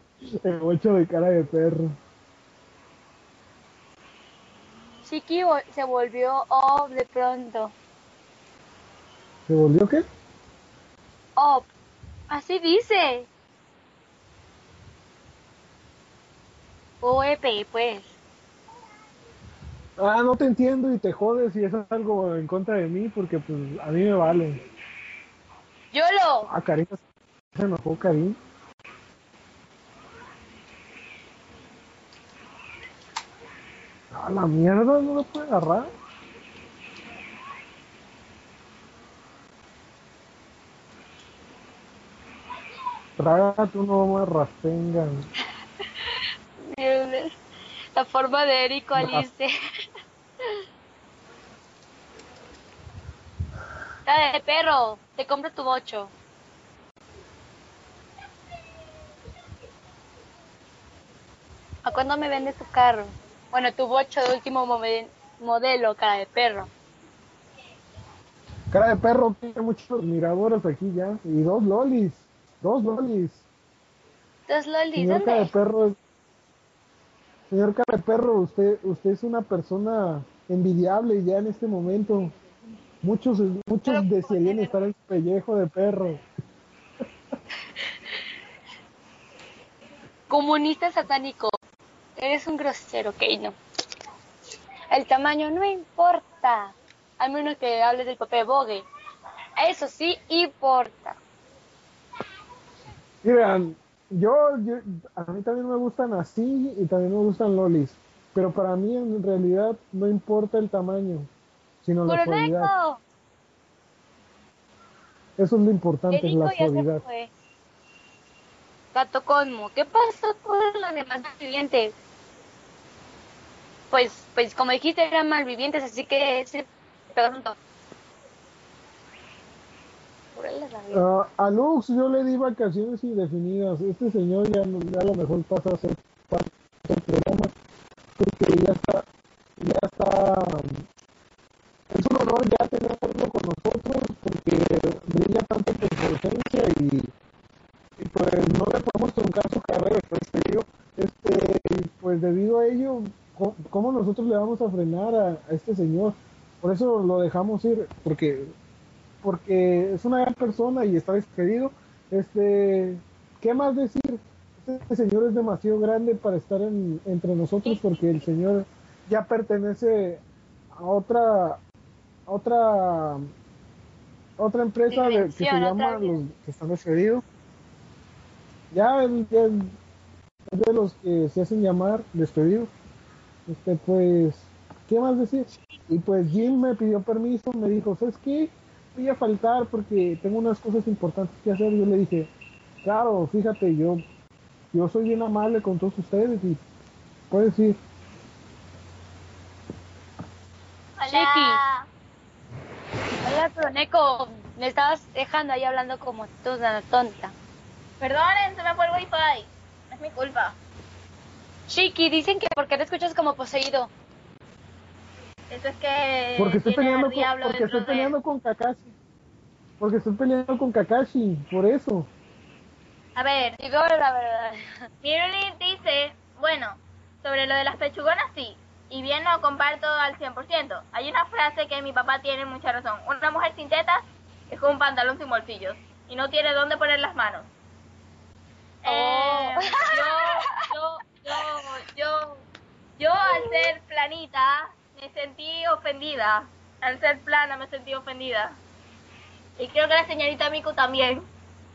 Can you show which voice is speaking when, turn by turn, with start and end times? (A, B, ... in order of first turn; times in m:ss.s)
0:00.4-0:02.0 A
0:05.1-0:07.7 B
0:09.5-0:10.0 A
0:11.4-0:11.7 B
0:12.3-0:13.3 B
0:17.0-0:18.1 B
0:20.0-0:24.6 A
0:25.9-0:26.5 B
0:26.5-0:27.0 A
0:27.6-0:28.4 A
0:34.1-0:35.9 A
0:43.2-0:45.3 A
0:46.7-0:47.4 B
0:48.0-0:49.5 B
0:49.0-0:49.3 A
0:54.1-0:56.1 B
1:01.8-1:06.7 B
1:08.7-1:13.4 A
1:14.5-1:15.5 B
1:15.0-1:16.0 A
1:17.5-1:22.4 A
1:23.0-1:26.2 A
1:23.9-1:24.8 B
1:30.3-1:31.6 B
1:32.2-1:33.6 B
1:34.9-1:38.9 B
1:39.6-1:41.2 B
1:43.2-1:51.3 A
1:51.8-1:52.7 A
1:52.1-1:53.0 B
1:55.4-1:57.0 A
1:56.1-1:57.3 B
1:58.9-2:01.9 B
2:03.9-2:07.6 B
2:10.4-2:11.0 B
2:10.9-2:17.5 A
2:18.2-2:19.1 A
2:19.6-2:20.8 A
2:21.9-2:27.1 A
2:28.0-2:38.5 A
2:39.2-2:50.2 A
2:50.8-2:51.6 A
2:52.3-2:53.3 A
2:54.4-2:57.2 A
2:54.9-2:56.2 B
2:58.7-2:59.8 A
3:00.5-3:02.7 A
3:03.5-3:12.3 A
3:12.8-3:14.0 A
3:14.7-3:16.6 A
3:17.3-3:17.8 A
3:21.0-3:21.9 C
3:21.1-3:21.6 B
3:23.2-3:27.3 B
3:28.0-3:30.6 C
3:31.7-3:33.9 B
3:35.5-3:38.1 C
3:36.4-3:38.9 A
3:39.8-3:42.1 A
3:43.2-3:43.6 C
3:43.6-3:44.7 B
3:45.0-3:57.5 C
3:58.8-4:02.4 C
3:58.8-4:00.4 B
4:03.0-4:08.6 C
4:03.3-4:03.7 B
4:09.6-4:11.3 C